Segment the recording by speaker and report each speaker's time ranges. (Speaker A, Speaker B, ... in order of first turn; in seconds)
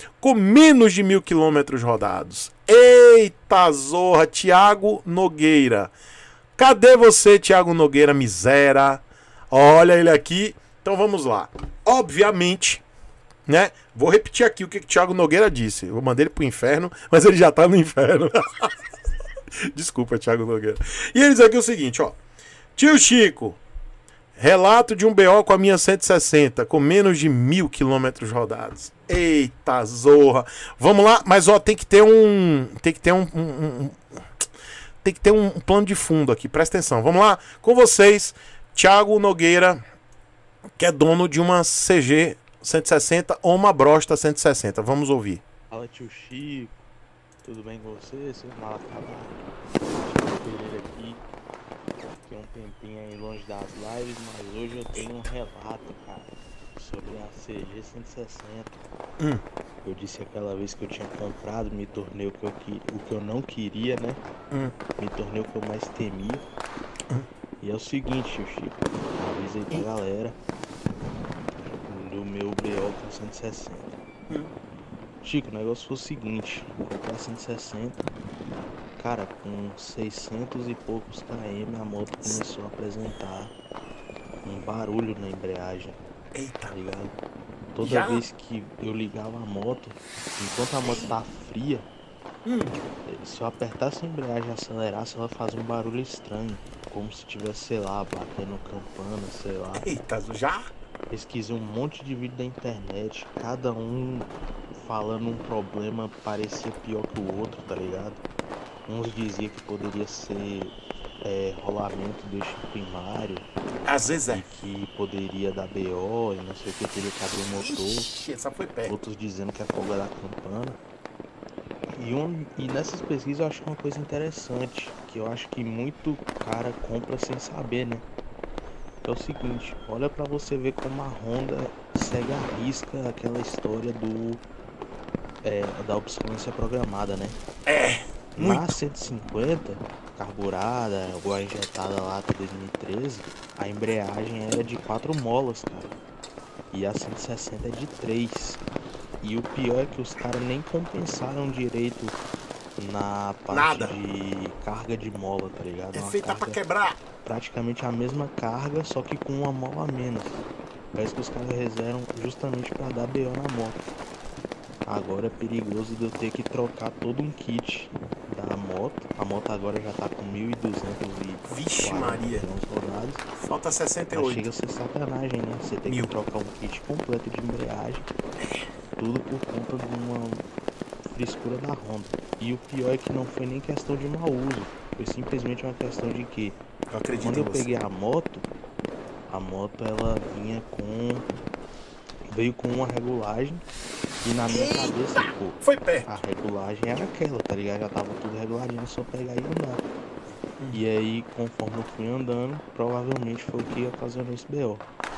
Speaker A: 0.2-5.9, 6.5-12.8, 13.5-18.8, 19.7-22.2, 22.8-23.6, 24.4-34.2, 35.0-39.8, 40.8-45.4, 86.3-86.8, 87.8-88.2, 92.4-92.8, 99.7-100.7, 113.8-114.4, 117.5-118.9, 137.7-138.8, 153.5-154.0, 155.9-157.0, 171.4-172.5, 173.4-174.5, 175.8-176.1, 186.9-187.7, 194.5-196.2
Speaker B: 45.7-46.8, 47.4-51.2, 52.2-58.8, 59.8-64.2, 65.0-66.5, 67.6-70.3, 71.8-73.9, 75.2-78.0, 79.0-83.5, 84.4-86.0, 86.7-87.1, 87.7-91.9, 93.0-99.9, 101.1-108.2, 108.9-113.5, 114.3-118.1, 118.8-120.8, 122.0-128.0, 129.0-134.4, 135.4-137.4, 138.3-145.9, 146.7-148.6, 149.2-152.2, 152.8-156.6, 157.2-160.4, 160.9-163.8, 164.8-173.2, 174.1-178.1, 179.0-180.4, 181.0-186.6, 187.2-188.5, 189.3-191.2, 192.3-193.6, 194.2-199.8, 200.7-204.8